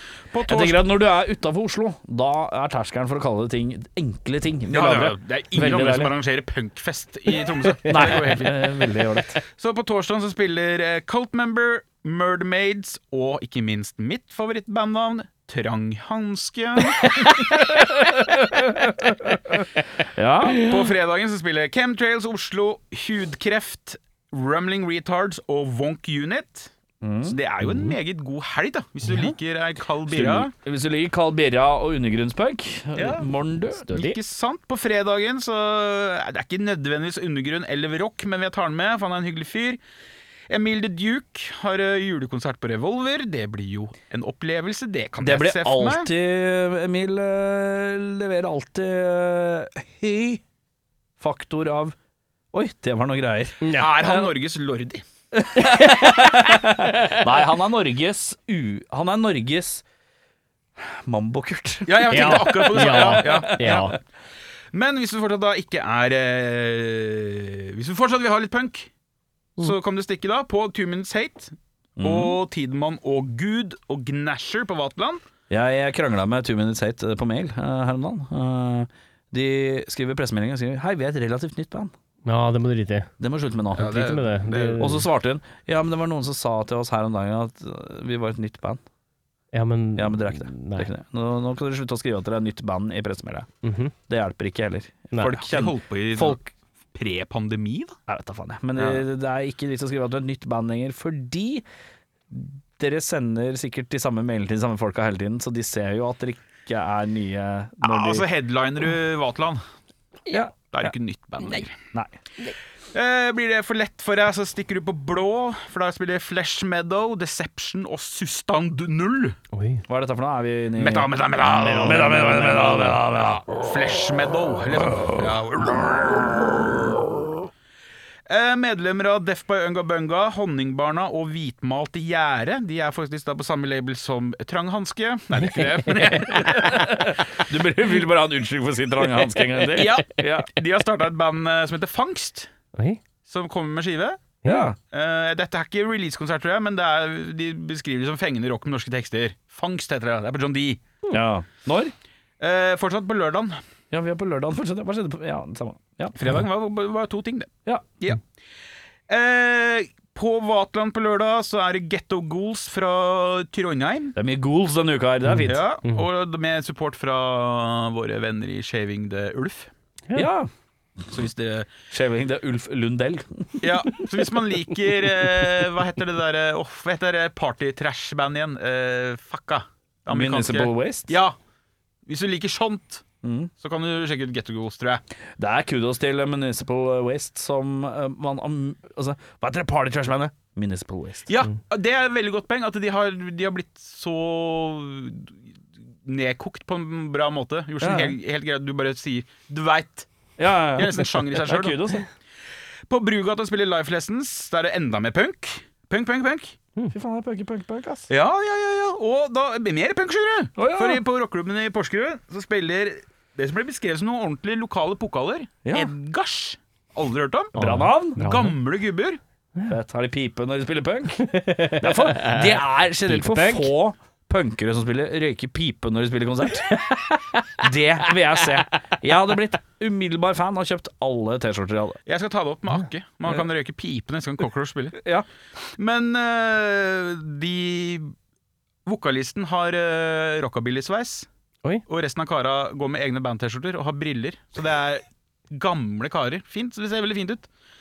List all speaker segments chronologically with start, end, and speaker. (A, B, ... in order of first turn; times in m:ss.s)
0:00.3-0:00.8 A
0:00.5-0:06.1 B
0:04.7-0:08.7 A
0:07.9-0:08.2 C
0:07.9-0:09.4 B
0:09.5-0:17.1 A
0:17.0-0:19.3 C
0:17.3-0:20.6 B
0:20.5-0:20.8 C
0:20.5-0:26.7 A
0:27.0-0:27.4 B
0:27.2-0:30.5 A
0:27.6-0:27.9 C
0:29.1-0:29.3 B
0:30.1-0:34.2 B
0:33.0-0:33.3 A
0:33.8-0:39.8 A
0:40.5-0:46.1 A
0:45.2-0:50.4 B
0:51.2-0:51.9 B
0:52.5-0:54.3 B
0:53.6-0:53.9 C
0:53.7-0:55.0 A
0:55.3-0:59.8 B
0:55.6-0:57.4 C
1:00.8-1:04.0 B
1:01.9-1:03.9 A
1:02.1-1:03.9 C
1:04.7-1:08.9 A
1:09.6-1:15.2 A
1:12.0-1:12.4 B
1:15.5-1:21.9 B
1:22.2-1:23.1 C
1:23.2-1:24.2 B
1:23.7-1:24.8 A
1:23.8-1:25.1 C
1:24.8-1:28.8 B
1:29.5-1:30.9 C
1:30.0-1:33.5 B
1:33.6-1:33.9 C
1:34.1-1:36.5 B
1:35.1-1:35.4 C
1:35.2-1:36.4 A
1:36.9-1:38.0 A
1:38.1-1:41.6 B
1:38.8-1:39.0 A
1:42.3-1:48.2 B
1:47.8-1:49.6 A
1:50.3-1:50.9 B
1:50.7-1:51.8 A
1:52.9-1:59.4 A
1:59.5-1:59.8 C
1:59.9-2:03.4 B
2:00.8-2:06.8 A
2:01.7-2:01.9 C
2:08.3-2:16.9 A
2:15.3-2:16.8 C
2:16.4-2:20.5 B
2:19.7-2:22.5 A
2:22.7-2:23.0 C
2:23.2-2:24.3 A
2:24.4-2:24.7 C
2:24.4-2:24.8 B
2:24.9-2:30.8 A
2:31.1-2:31.9 B
2:32.4-2:33.6 A
2:33.9-2:36.2 B
2:36.2-2:37.5 A
2:39.1-2:44.1 A
2:44.2-2:45.6 B
2:45.3-2:46.0 C
2:45.4-2:49.7 A
2:50.1-2:50.5 B
2:51.1-2:51.7 A
2:51.9-2:53.7 B
2:53.6-3:01.3 A
3:00.1-3:01.1 B
3:02.0-3:03.0 A
3:03.2-3:03.5 B
3:03.6-3:05.0 A
3:05.4-3:11.3 B
3:11.3-3:15.4 A
3:16.0-3:20.1 A
3:17.8-3:18.1 B
3:20.4-3:22.1 B
3:20.7-3:21.8 A
3:22.9-3:26.6 A
3:26.9-3:28.1 B
3:28.1-3:37.6 A
3:30.6-3:31.0 B
3:35.6-3:35.9 B
3:37.5-3:38.6 C
3:37.6-3:38.2 B
3:38.2-3:39.2 A
3:39.7-3:47.0 B
3:41.2-3:43.7 C
3:46.7-3:47.4 C
3:47.6-3:52.0 B
3:52.1-3:55.0 A
3:55.0-3:55.2 B
3:55.8-3:58.1 A
3:58.8-4:01.3 A
4:01.9-4:07.5 A